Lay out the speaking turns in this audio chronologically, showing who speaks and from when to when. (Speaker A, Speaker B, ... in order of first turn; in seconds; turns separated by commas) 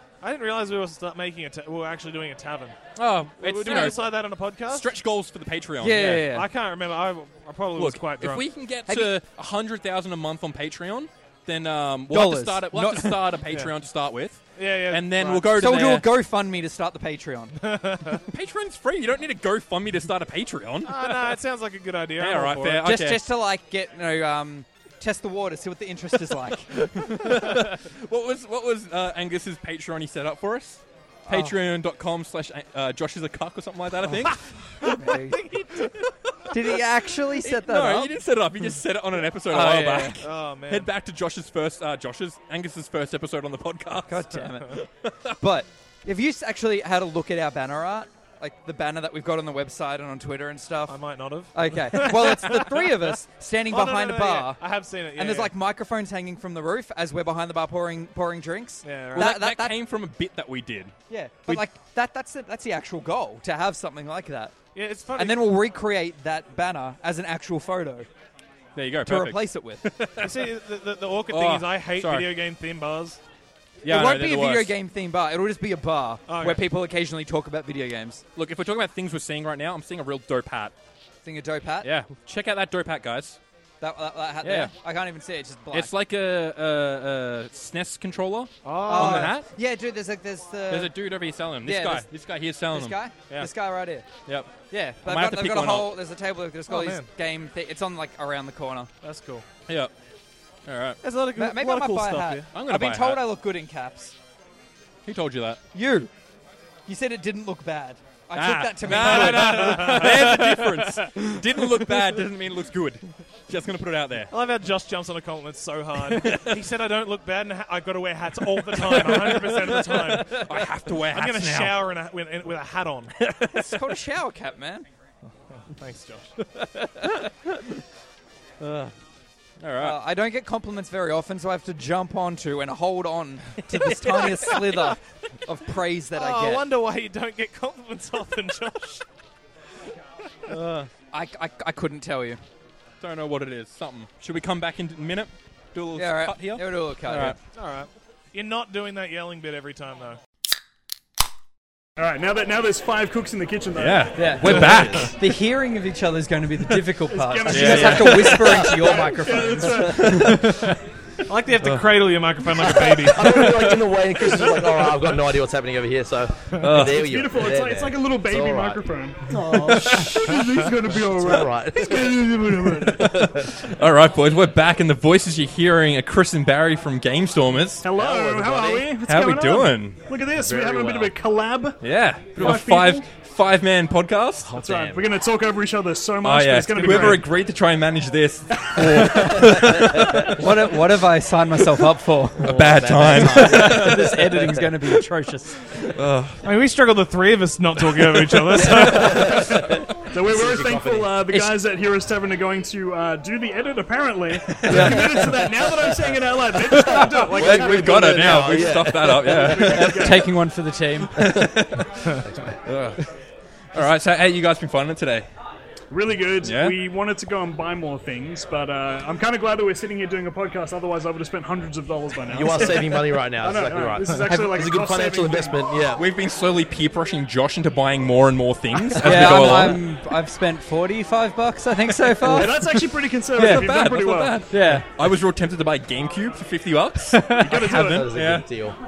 Speaker A: 0.2-2.8, Speaker B: 3.0-6.2, Speaker A: 3.4-4.9, Speaker C: 5.8-6.5, Speaker A: 5.9-8.4, Speaker B: 7.8-16.1, Speaker C: 8.9-9.2, Speaker C: 12.1-13.2, Speaker A: 14.5-15.4, Speaker C: 15.4-17.6, Speaker A: 17.6-18.2, Speaker B: 18.3-21.3, Speaker A: 20.8-22.9, Speaker B: 22.2-23.2, Speaker C: 22.8-27.3, Speaker B: 26.7-34.9, Speaker C: 31.3-31.5, Speaker C: 34.1-35.4, Speaker A: 34.3-35.9, Speaker B: 35.8-36.8, Speaker C: 36.5-38.2, Speaker B: 37.4-45.4, Speaker C: 39.5-40.2, Speaker A: 40.2-40.9, Speaker C: 44.1-44.8, Speaker C: 45.4-51.0, Speaker A: 50.9-53.1, Speaker C: 51.5-54.6, Speaker A: 53.7-55.5, Speaker C: 55.1-59.8, Speaker A: 58.8-59.3, Speaker B: 59.1-60.9, Speaker C: 61.1-64.5, Speaker A: 64.7-65.5, Speaker C: 65.2-68.1, Speaker B: 68.8-70.5, Speaker C: 69.0-69.8, Speaker A: 70.2-73.2, Speaker B: 71.3-72.3, Speaker B: 73.8-74.7, Speaker C: 73.8-78.2, Speaker A: 76.3-76.6, Speaker B: 78.3-80.7, Speaker C: 81.2-81.9, Speaker B: 81.8-83.4, Speaker C: 83.8-85.9, Speaker B: 84.4-84.7, Speaker B: 85.7-89.5, Speaker A: 88.6-89.4, Speaker C: 88.8-91.0, Speaker B: 90.7-93.5, Speaker C: 91.6-92.1, Speaker C: 92.7-94.1, Speaker B: 94.3-96.0, Speaker C: 94.7-98.9, Speaker A: 96.7-97.1, Speaker A: 99.0-99.4, Speaker B: 100.7-101.0, Speaker A: 101.0-102.5, Speaker C: 101.3-104.1, Speaker B: 102.5-103.2, Speaker B: 105.0-105.6, Speaker C: 105.7-106.1, Speaker C: 106.9-111.3, Speaker B: 108.3-114.3, Speaker A: 108.9-110.4, Speaker A: 114.3-120.4, Speaker B: 116.1-116.6, Speaker B: 118.7-121.8, Speaker A: 121.0-123.1, Speaker B: 123.2-123.9, Speaker C: 123.5-124.8, Speaker A: 125.7-126.3, Speaker B: 126.5-127.8, Speaker B: 128.6-128.9, Speaker B: 129.6-130.0, Speaker C: 129.8-136.7, Speaker B: 133.8-134.6, Speaker A: 136.1-139.0, Speaker B: 140.5-140.9, Speaker C: 141.1-142.4, Speaker B: 143.0-147.3, Speaker C: 145.9-147.3, Speaker A: 147.5-150.2, Speaker D: 152.0-154.5, Speaker B: 153.7-155.1, Speaker C: 154.1-160.4, Speaker E: 154.4-155.1, Speaker D: 157.1-160.5, Speaker B: 157.5-158.4, Speaker E: 158.4-160.2, Speaker B: 160.0-160.7, Speaker A: 161.3-163.5, Speaker E: 163.0-168.9, Speaker D: 164.4-164.7, Speaker B: 166.6-167.0, Speaker D: 166.7-173.3, Speaker E: 169.7-173.5, Speaker B: 173.0-177.8, Speaker D: 177.8-183.1, Speaker E: 177.9-179.0, Speaker B: 179.0-180.0, Speaker E: 180.3-181.2, Speaker B: 181.8-184.5, Speaker E: 184.4-185.1, Speaker D: 184.6-187.3, Speaker B: 186.2-190.4, Speaker A: 186.8-187.2, Speaker D: 188.6-189.4, Speaker C: 190.2-195.6, Speaker E: 192.4-194.1, Speaker B: 192.4-194.2, Speaker B: 195.9-196.4, Speaker A: 196.4-199.5, Speaker E: 198.6-199.8, Speaker B: 198.7-199.4, Speaker D: 198.9-199.3, Speaker D: 200.1-210.3, Speaker C: 200.3-201.4, Speaker B: 204.5-205.3, Speaker C: 204.7-205.0, Speaker B: 206.7-210.3, Speaker E: 206.9-209.9, Speaker C: 209.7-211.2, Speaker B: 211.2-213.0, Speaker E: 212.2-212.6, Speaker B: 213.7-215.3, Speaker D: 215.9-225.6, Speaker B: 216.4-216.8, Speaker E: 222.3-226.0, Speaker B: 226.0-229.8, Speaker C: 228.9-232.7, Speaker D: 232.2-234.4, Speaker B: 233.3-238.4, Speaker C: 233.4-233.7, Speaker C: 234.5-234.9, Speaker C: 237.1-237.6, Speaker D: 237.4-238.1, Speaker E: 237.6-238.8